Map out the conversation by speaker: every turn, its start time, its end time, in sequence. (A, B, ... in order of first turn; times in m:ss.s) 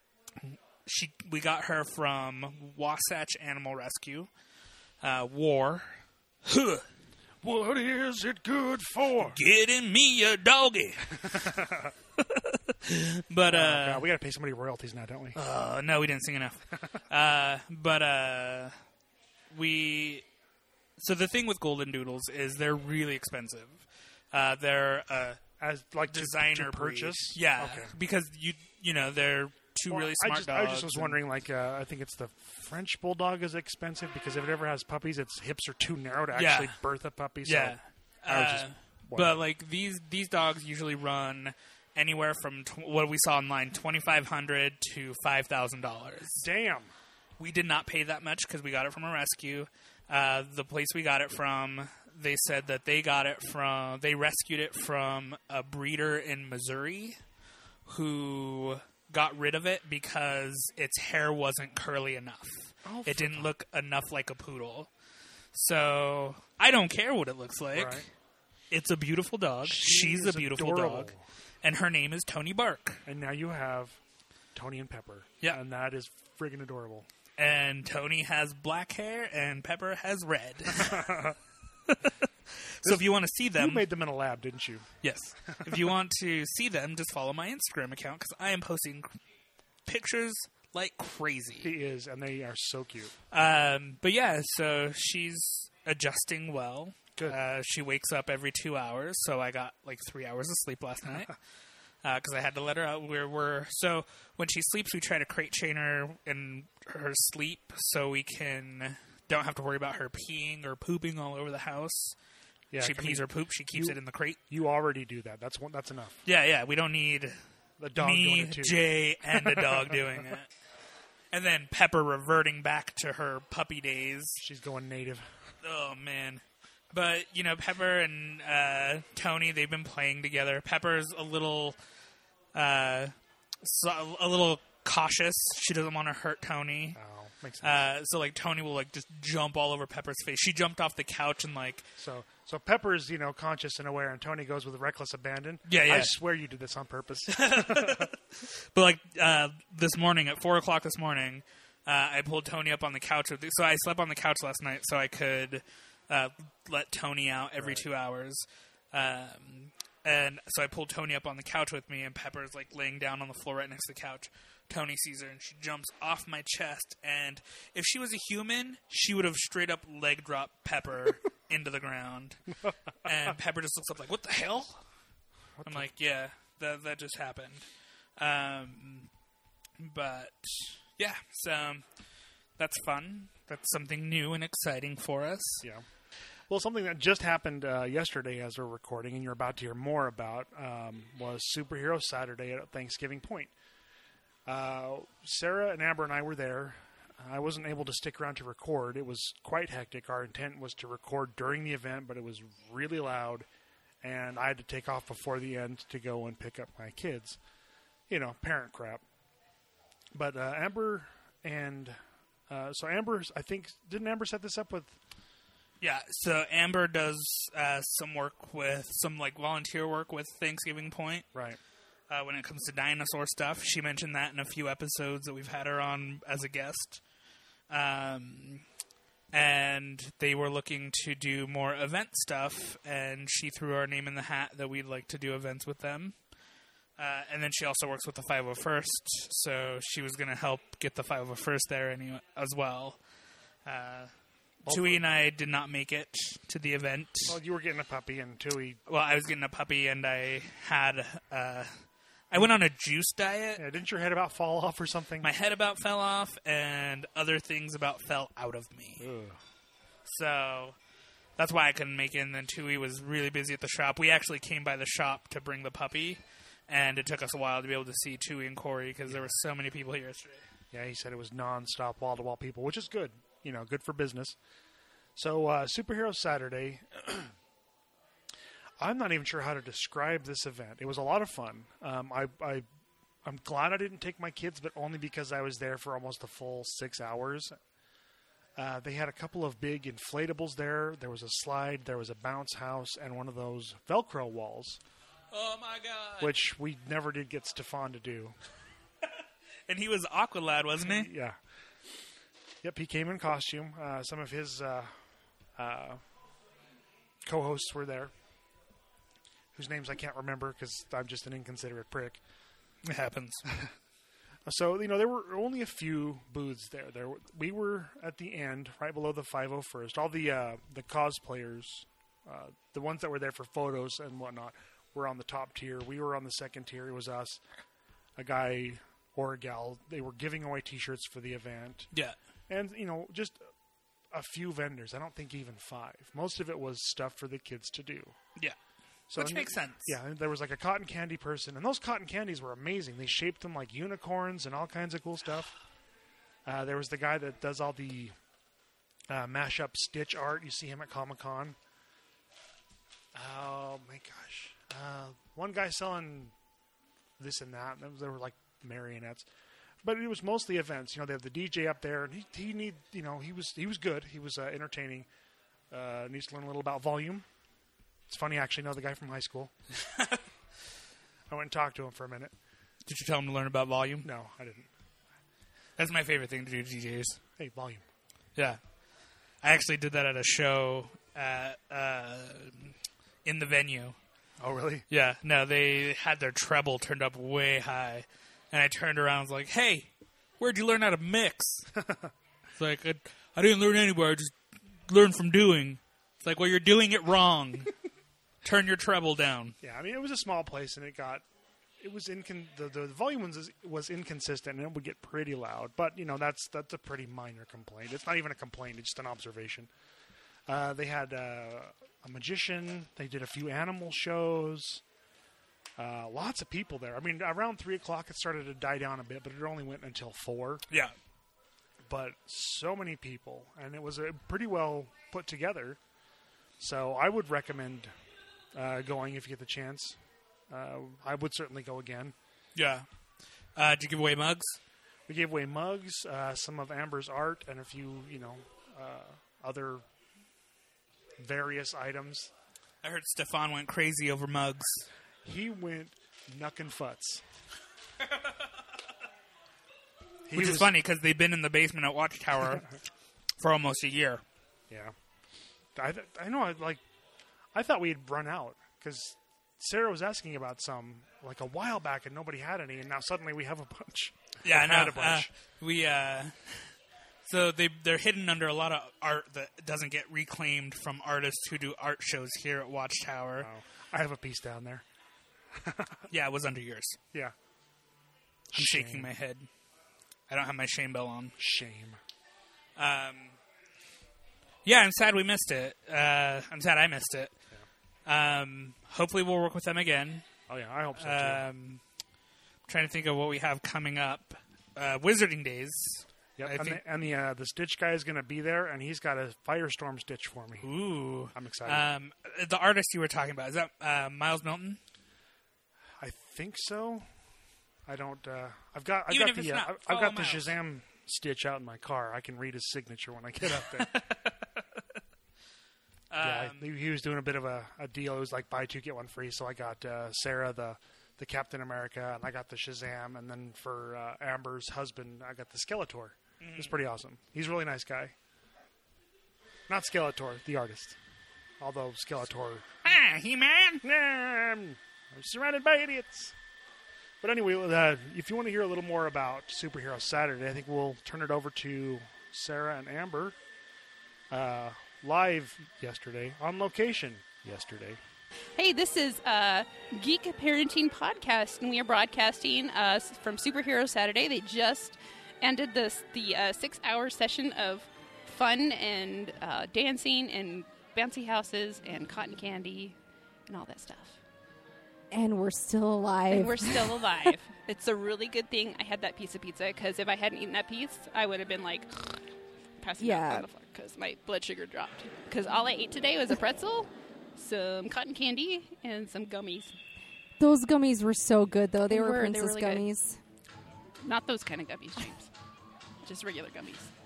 0:00.4-0:04.3 A
0:05.0-0:06.8 A
0:07.4-0:09.4 B
0:09.2-0:11.5 A
0:11.2-0:11.9 B
0:12.2-0:14.0 A
0:13.5-0:15.4 B
0:15.4-0:18.7 A
0:19.5-0:20.2 A
0:21.0-0:25.4 A
0:25.6-0:28.0 B
0:26.1-0:31.2 A
0:29.9-0:39.4 B
0:36.3-0:36.8 A
0:37.4-0:46.4 A
0:46.4-0:46.9 B
0:47.4-0:57.2 A
0:57.8-1:04.9 A
1:02.8-1:03.5 B
1:05.5-1:08.1 A
1:07.7-1:08.1 B
1:08.7-1:13.0 A
1:09.6-1:11.2 B
1:13.0-1:14.0 B
1:14.5-1:17.1 B
1:17.4-1:21.3 A
1:20.8-1:21.4 B
1:21.9-1:23.9 A
1:22.8-1:24.9 B
1:25.0-1:29.1 A
1:25.5-1:25.9 B
1:29.8-1:31.7 A
1:31.6-1:33.1 B
1:33.3-1:41.3 A
1:42.0-1:52.2 A
1:52.7-1:56.2 B
1:52.8-1:54.4 A
1:56.2-1:57.4 A
1:57.8-2:00.0 B
1:58.0-2:00.5 A
2:01.3-2:04.4 A
2:04.4-2:05.4 B
2:05.6-2:11.8 A
2:12.5-2:17.0 A
2:16.9-2:17.9 B
2:17.6-2:21.9 A
2:22.0-2:28.1 B
2:25.7-2:26.2 A
2:27.3-2:52.4 A
2:37.6-2:37.9 B
2:53.0-2:54.8 A
2:55.6-2:55.9 B
2:55.6-2:57.6 A
2:58.2-2:59.1 A
2:59.8-3:01.8 A
3:02.6-3:05.6 A
3:06.5-3:13.5 B
3:14.4-3:23.5 B
3:24.0-3:27.4 B
3:28.1-3:29.0 B
3:30.1-3:35.0 B
3:35.8-3:41.2 A
3:41.3-3:41.6 B
3:42.1-3:47.0 A
3:47.7-3:48.6 A
3:49.3-3:56.2 A
3:57.0-4:03.0 A
4:03.6-4:04.1 A
4:04.6-4:05.0 B
4:04.7-4:07.4 A
4:07.3-4:08.8 B
4:08.9-4:11.7 A
4:12.3-4:13.6 A
4:13.6-4:15.3 B
4:15.2-4:19.1 A
4:19.0-4:19.4 B
4:20.0-4:20.8 A
4:21.4-4:30.4 A
4:29.0-4:29.3 B
4:30.7-4:34.4 B
4:35.2-4:37.3 B
4:38.8-4:42.6 B
4:43.2-4:47.6 B
4:48.6-4:54.8 B
4:55.3-4:56.4 A
4:56.2-4:58.4 B
4:59.7-5:01.1 A
5:00.8-5:01.4 B
5:02.6-5:05.0 B
5:05.6-5:06.0 B
5:07.2-5:08.1 B
5:09.5-5:12.2 B
5:12.8-5:13.5 A
5:14.4-5:27.4 B
5:28.2-5:31.9 B
5:32.5-5:33.4 B
5:34.1-5:38.1 B
5:39.1-5:45.5 B
5:39.1-5:39.9 A
5:46.4-5:48.1 B
5:49.1-5:51.6 B
5:53.1-5:56.3 B
5:57.2-5:59.3 B
5:59.8-6:05.1 B
6:05.7-6:07.2 B
6:08.1-6:09.5 B
6:09.8-6:10.2 A
6:11.3-6:12.3 B
6:12.8-6:14.1 A
6:14.0-6:14.7 B
6:15.8-6:17.2 A
6:17.4-6:17.8 B
6:19.4-6:24.0 A
6:24.4-6:24.8 B
6:24.9-6:31.7 A
6:31.8-6:32.1 B
6:32.6-6:34.3 A
6:34.9-6:37.7 A
6:38.4-6:39.6 A
6:39.6-6:41.2 B
6:41.8-6:49.7 B
6:50.5-6:54.8 B
6:55.8-7:00.6 B
7:00.7-7:00.9 A
7:01.8-7:05.8 B
7:06.6-7:07.9 B
7:08.5-7:12.1 B
7:12.5-7:12.9 A
7:13.5-7:14.6 A
7:15.1-7:19.8 B
7:21.2-7:22.3 B
7:22.8-7:24.9 A
7:25.2-7:27.2 B
7:30.3-7:30.7 B
7:30.3-7:32.7 A
7:33.4-7:34.2 A
7:34.7-7:34.9 B
7:35.7-7:36.8 B
7:37.5-7:45.3 B
7:44.4-7:46.7 A
7:47.2-7:53.5 A
7:53.4-7:54.8 B
7:55.5-7:56.1 B
7:56.1-7:57.0 A
7:58.5-7:59.1 B
7:58.6-7:59.5 A
8:00.3-8:01.3 A
8:01.4-8:02.0 B
8:02.8-8:03.4 A
8:04.6-8:07.3 A
8:08.0-8:10.2 A
8:10.5-8:11.4 B
8:11.0-8:11.8 A
8:12.7-8:16.8 A
8:16.4-8:20.7 B
8:20.6-8:24.8 A
8:21.3-8:21.9 B
8:26.0-8:27.0 B
8:27.8-8:33.9 B
8:29.1-8:30.5 A
8:33.6-8:34.6 A
8:36.1-8:36.7 A
8:36.2-8:48.1 B
8:46.4-8:46.7 A
8:49.7-8:51.0 B
8:51.6-8:52.8 B
8:52.8-8:53.8 A
8:53.8-8:56.3 B
8:57.2-9:03.4 B
9:04.3-9:08.0 B
9:08.6-9:23.0 C
9:23.5-9:24.2 C
9:25.1-9:27.0 D
9:26.3-9:32.2 C
9:32.8-9:39.7 C
9:33.0-9:33.4 D
9:40.4-9:43.2 D
9:41.9-9:42.8 C
9:44.0-9:45.3 C
9:46.0-9:46.9 C